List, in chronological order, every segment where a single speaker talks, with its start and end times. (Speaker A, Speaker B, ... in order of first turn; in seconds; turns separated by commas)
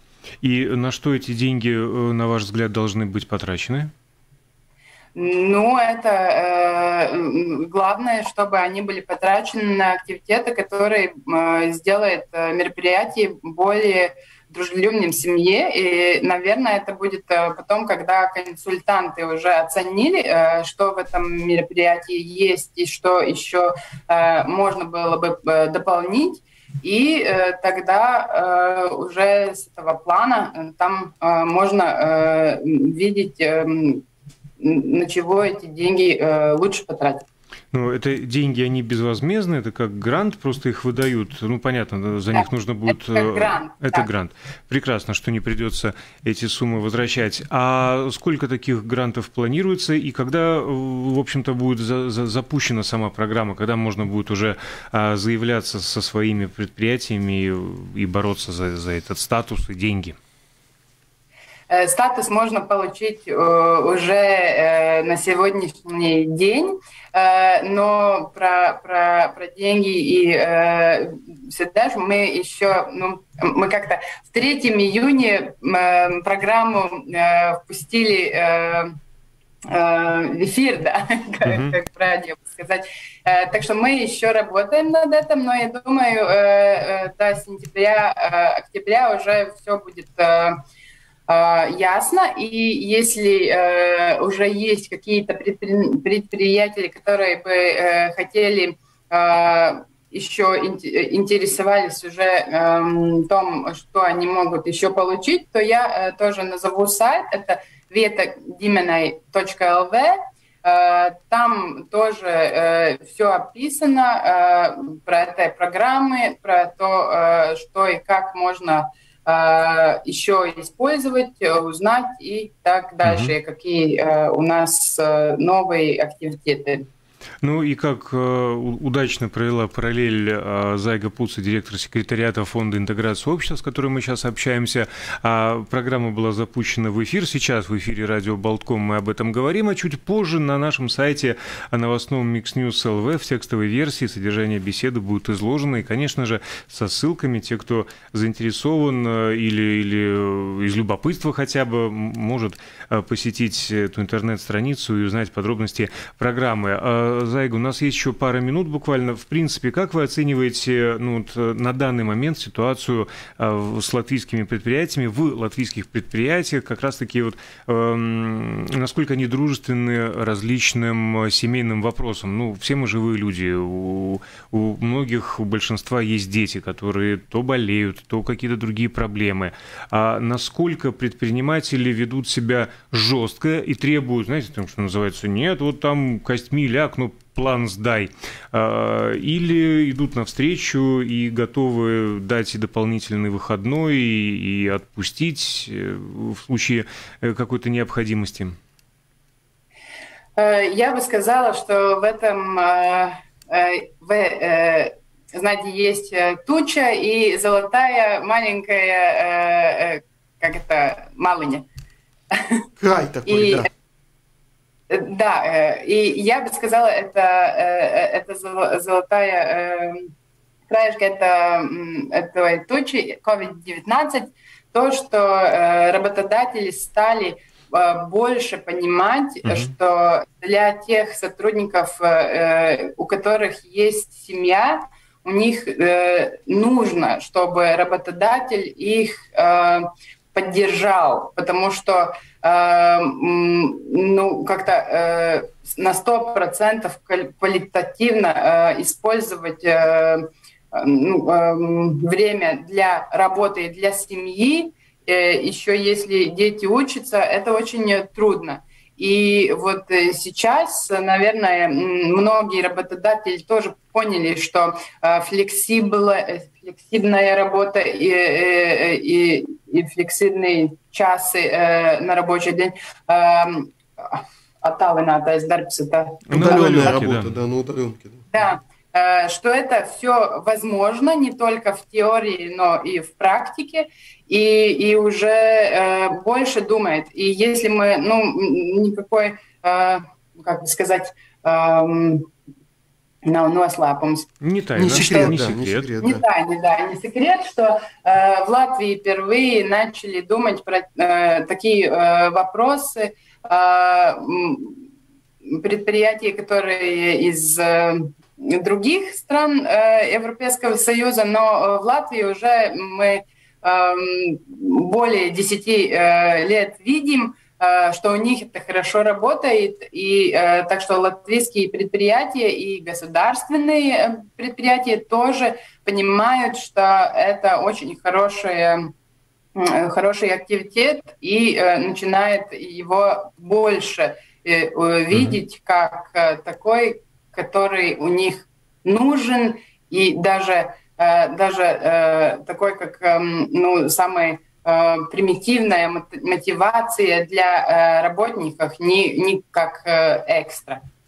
Speaker A: 0.4-3.9, Speaker B: 5.1-34.0, Speaker B: 34.6-37.2, Speaker A: 37.7-60.1, Speaker B: 42.3-44.1, Speaker B: 61.7-78.9, Speaker B: 79.7-90.6, Speaker A: 81.4-81.8, Speaker B: 91.3-126.8, Speaker A: 123.0-123.3, Speaker A: 127.4-198.6, Speaker B: 200.3-211.6, Speaker B: 212.3-212.6, Speaker C: 212.8-213.7, Speaker B: 213.2-213.6, Speaker B: 214.9-220.1, Speaker B: 220.7-276.4, Speaker A: 229.4-229.7, Speaker A: 276.3-277.4, Speaker C: 276.3-278.3, Speaker B: 278.3-292.3, Speaker B: 293.2-294.3, Speaker A: 294.4-295.9, Speaker C: 294.8-296.2, Speaker B: 294.9-295.4, Speaker B: 296.0-304.9, Speaker B: 305.4-328.9, Speaker B: 329.5-350.8, Speaker A: 335.1-335.4